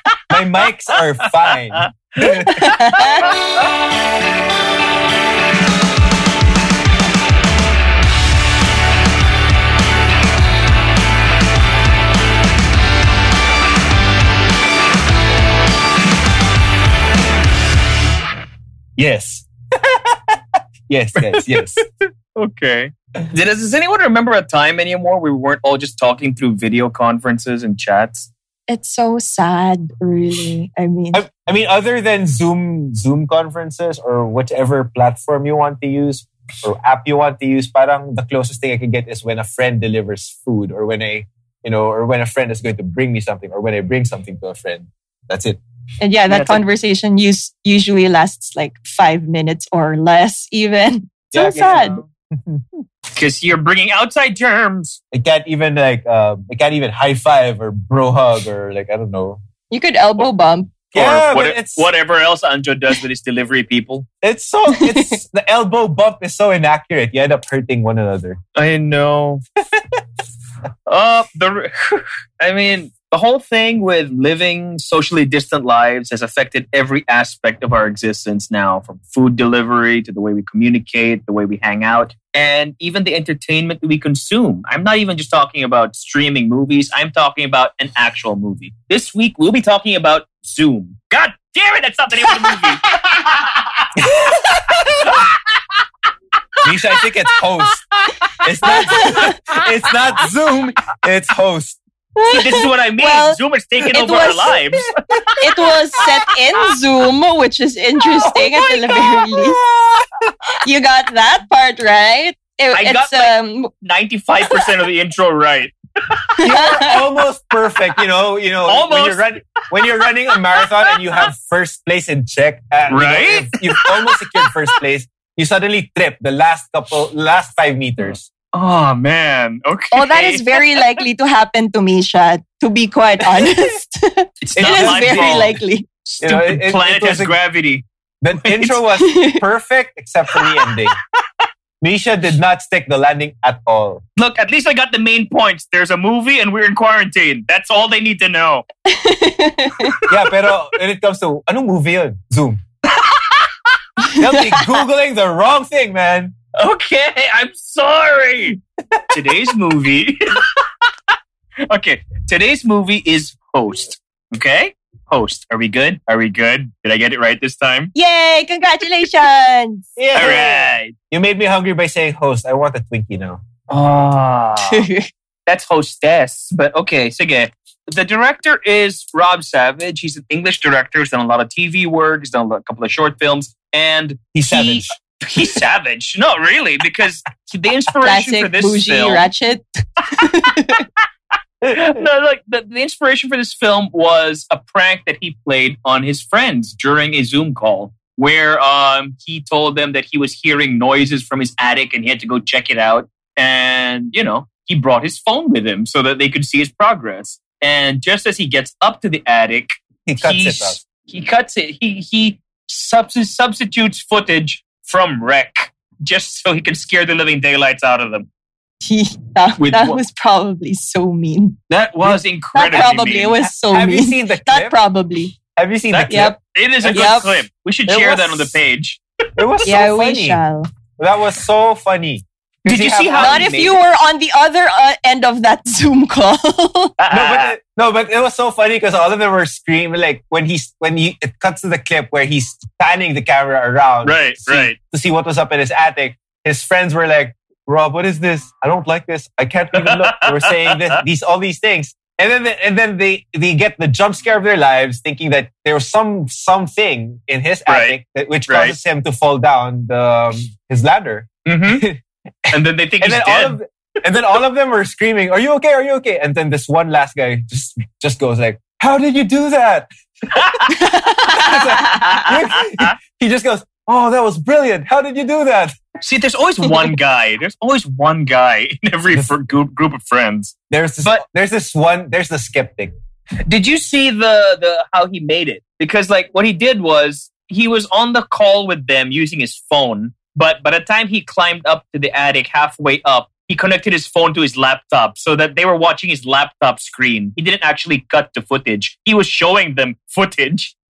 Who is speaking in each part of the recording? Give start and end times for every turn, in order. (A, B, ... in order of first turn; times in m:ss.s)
0:00.3-0:02.7 A
0:01.2-0:03.7 B
0:02.5-0:03.3 C
0:19.0-0:20.4 A
0:20.9-0:21.8 A
0:21.2-0:28.3 B
0:28.7-0:31.2 C
0:31.1-0:45.6 A
0:46.0-0:52.0 C
0:46.3-0:46.6 B
0:51.3-0:52.6 A
0:51.4-0:52.0 B
0:53.1-0:55.0 B
0:55.1-0:59.4 A
0:59.7-1:00.7 C
1:00.9-1:01.9 A
1:00.9-1:04.1 B
1:04.2-1:08.4 A
1:04.7-1:05.1 C
1:08.5-1:09.4 B
1:10.9-1:33.8 B
1:34.0-1:35.2 A
1:35.0-1:35.3 B
1:36.6-1:37.8 A
1:37.9-1:40.0 B
1:38.4-1:41.8 A
1:38.7-1:39.4 C
1:42.2-1:44.6 C
1:42.3-1:46.1 B
1:44.9-1:45.6 A
1:45.4-1:49.6 C
1:48.2-1:50.2 A
1:50.6-1:53.7 C
1:52.7-1:56.4 B
1:56.4-1:57.0 C
1:56.4-2:08.2 A
1:58.7-1:59.3 B
1:59.8-2:01.0 B
2:02.9-2:04.6 B
2:08.5-2:11.0 B
2:09.9-2:15.9 C
2:14.4-2:18.8 B
2:14.5-2:15.6 A
2:16.2-2:17.3 A
2:18.2-2:21.0 A
2:19.0-2:19.4 C
2:21.8-2:24.0 A
2:24.2-2:28.6 B
2:28.9-2:30.0 C
2:30.0-2:32.6 A
2:32.8-2:33.5 B
2:34.1-2:36.3 A
2:36.5-2:38.6 B
2:39.1-2:40.9 B
2:41.7-2:47.9 B
2:47.9-2:50.5 C
2:50.0-2:53.4 A
2:50.1-2:50.9 B
2:53.7-2:54.9 B
2:54.6-2:55.1 C
2:55.5-3:09.3 B
3:04.3-3:05.5 A
3:08.0-3:10.9 C
3:11.6-3:38.3 B
3:30.0-3:30.8 A
3:38.8-3:41.6 C
3:39.6-3:40.0 B
3:41.7-3:43.4 B
3:42.5-3:45.3 C
3:43.4-3:44.8 A
3:45.5-3:47.2 A
3:45.9-3:49.0 B
3:46.1-3:46.3 C
3:46.9-3:47.4 C
3:47.9-3:48.5 A
3:49.4-3:50.4 A
3:49.6-3:50.7 C
3:51.0-3:53.5 A
3:52.6-3:53.8 B
3:53.2-3:57.0 C
3:57.0-3:57.5 B
3:57.1-4:35.8 A
4:04.0-4:04.8 B
4:09.7-4:11.0 B
4:17.7-4:18.8 B
4:21.4-4:21.8 B
4:22.5-4:23.6 B
4:30.4-4:30.7 B
4:30.7-4:32.2 C
4:31.9-4:32.9 B
4:36.0-4:41.2 B
4:40.7-4:42.9 A
4:43.4-5:00.7 B